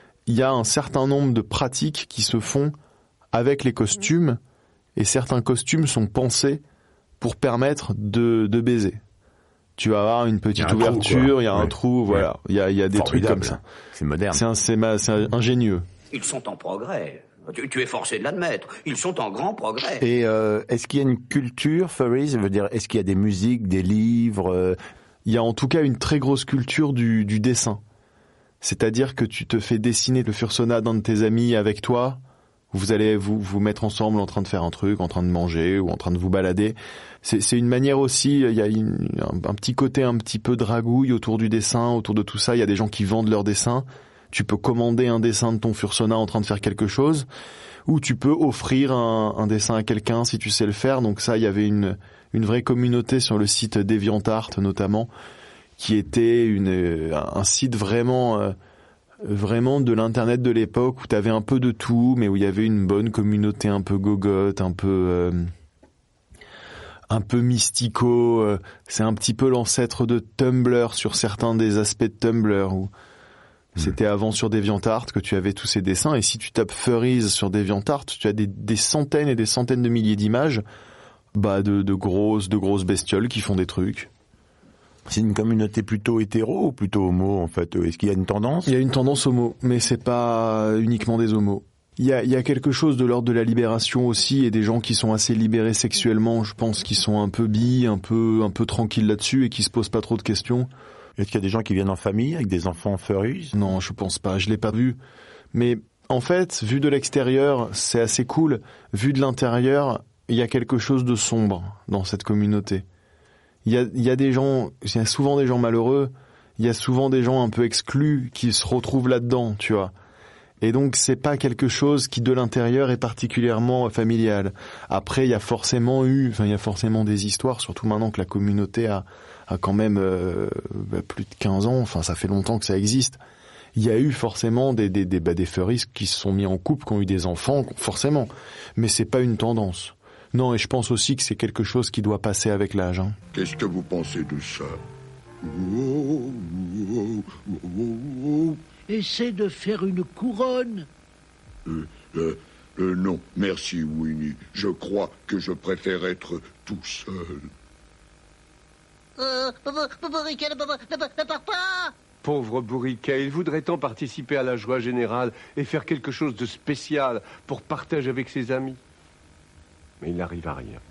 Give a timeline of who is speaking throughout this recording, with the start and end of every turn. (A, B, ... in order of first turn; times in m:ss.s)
0:00.3-0:02.7 A
0:03.3-0:04.4 A
0:05.0-0:06.6 A
0:07.2-0:09.0 A
0:09.8-0:13.6 A
0:10.6-0:12.3 B
0:12.9-0:14.4 B
0:14.3-0:15.8 A
0:16.1-0:20.0 C
0:20.0-0:24.8 B
0:25.3-0:27.8 A
0:28.6-0:32.2 A
0:32.7-0:47.3 A
0:47.9-0:55.1 A
0:55.8-0:58.6 A
0:59.2-1:05.5 A
1:07.1-1:12.9 A
1:13.8-1:20.6 A
1:21.4-1:24.1 A
1:25.1-1:28.7 B
1:28.7-1:40.7 A
1:41.2-1:43.5 B
1:43.5-1:45.0 A
1:45.5-1:52.8 A
1:53.6-1:59.9 A
2:00.6-2:13.2 A
2:13.8-2:23.2 A
2:23.3-2:24.8 D
2:25.4-2:28.7 D
2:28.9-2:30.9 E
2:31.7-2:37.5 D
2:39.2-2:41.9 E
2:42.2-2:48.8 F
2:50.0-2:50.8 F